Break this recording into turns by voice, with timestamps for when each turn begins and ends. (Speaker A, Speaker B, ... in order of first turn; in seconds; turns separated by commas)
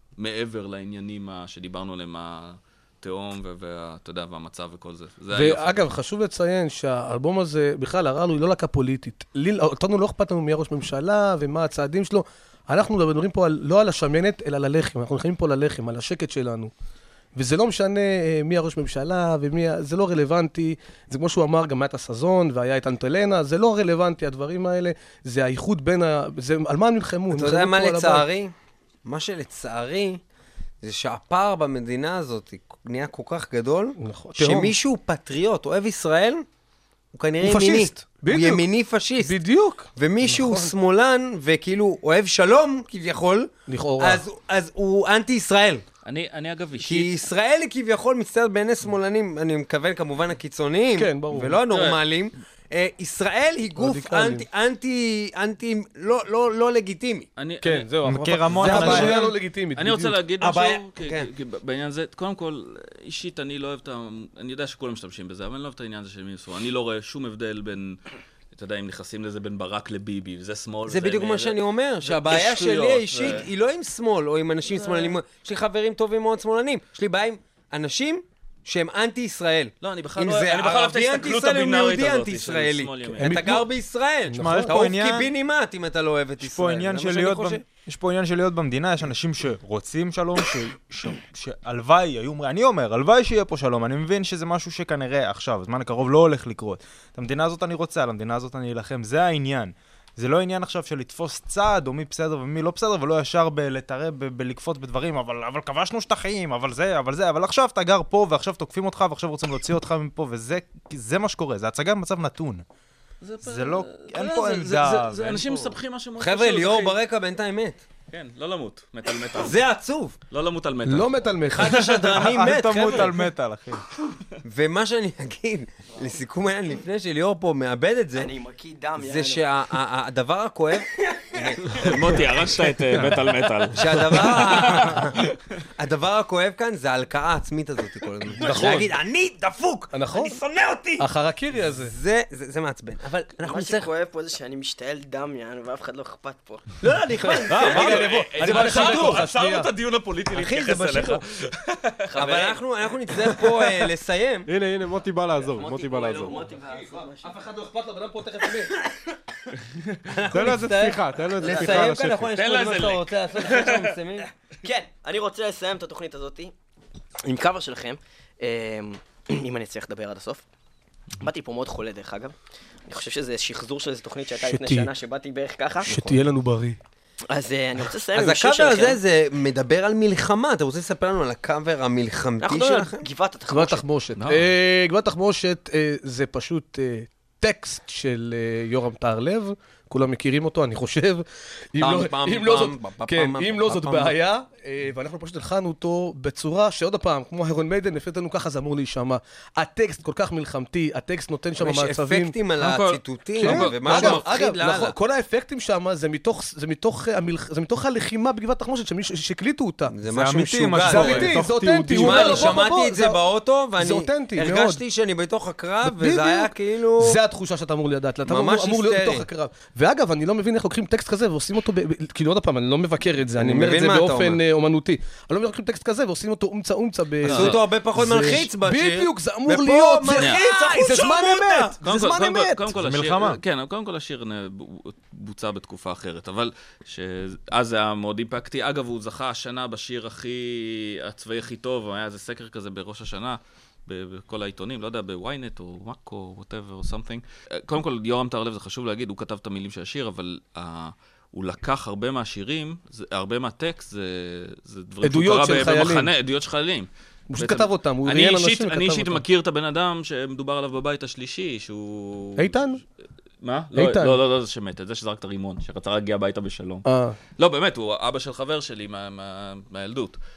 Speaker A: 0.2-6.0, Speaker B: 5.3-16.7, Speaker B: 17.4-28.3, Speaker C: 27.3-28.5, Speaker C: 29.0-30.2, Speaker C: 30.8-36.4, Speaker B: 34.0-34.8, Speaker C: 37.1-39.3, Speaker B: 37.4-38.6, Speaker B: 39.2-40.7, Speaker C: 39.9-45.8, Speaker B: 43.7-44.2, Speaker A: 46.0-47.1, Speaker C: 46.8-57.3, Speaker B: 50.9-51.6, Speaker A: 51.7-52.0, Speaker B: 53.8-54.5, Speaker A: 57.4-73.5, Speaker B: 57.6-60.2, Speaker D: 58.0-59.1, Speaker C: 58.7-59.1, Speaker C: 60.4-61.3, Speaker C: 70.9-87.6, Speaker A: 74.8-75.1, Speaker A: 79.8-83.3, Speaker B: 83.2-83.7, Speaker D: 83.3-83.6, Speaker D: 84.3-85.3, Speaker B: 84.4-84.7, Speaker D: 86.4-112.6, Speaker A: 113.2-117.0, Speaker D: 113.4-115.7, Speaker C: 116.2-117.8, Speaker A: 118.1-119.6, Speaker C: 119.3-120.2, Speaker A: 120.3-122.2, Speaker B: 120.9-123.1, Speaker C: 121.5-123.1, Speaker D: 122.3-123.8, Speaker C: 124.4-128.3, Speaker E: 128.1-129.4, Speaker C: 129.0-132.2, Speaker A: 131.8-135.4, Speaker C: 133.7-135.2, Speaker C: 135.8-141.1, Speaker B: 138.4-139.0, Speaker B: 139.9-140.4, Speaker B: 141.0-141.9, Speaker C: 141.8-143.9, Speaker E: 143.4-146.6, Speaker C: 146.8-149.2, Speaker B: 147.2-149.7, Speaker A: 147.6-152.1, Speaker C: 150.3-151.2, Speaker E: 152.1-152.6, Speaker C: 152.1-154.5, Speaker F: 154.5-156.4, Speaker E: 155.5-157.3, Speaker B: 156.2-158.9, Speaker C: 160.1-164.3, Speaker F: 160.3-162.4, Speaker E: 161.4-161.9, Speaker A: 162.3-163.9, Speaker E: 164.6-166.5, Speaker E: 167.2-170.4, Speaker E: 171.2-172.3, Speaker E: 172.9-175.9, Speaker B: 174.4-174.9, Speaker B: 175.8-176.8, Speaker E: 177.3-179.0, Speaker C: 178.1-183.0, Speaker E: 182.4-183.8, Speaker B: 183.5-202.3, Speaker A: 184.2-184.5, Speaker C: 191.8-194.2, Speaker C: 201.6-204.9, Speaker A: 202.6-204.2, Speaker B: 203.4-209.9, Speaker C: 209.9-211.4, Speaker D: 210.1-212.7, Speaker B: 210.7-213.2, Speaker C: 211.9-217.2, Speaker B: 213.8-214.8, Speaker B: 215.8-232.6, Speaker C: 218.2-219.2, Speaker C: 223.4-224.4, Speaker C: 227.2-231.8, Speaker A: 227.3-227.6, Speaker A: 231.8-262.6, Speaker D: 232.7-233.4, Speaker B: 255.0-256.1, Speaker B: 257.3-259.2, Speaker B: 262.4-262.8, Speaker A: 263.4-266.9, Speaker B: 263.7-264.2, Speaker B: 266.9-267.2, Speaker A: 267.4-270.2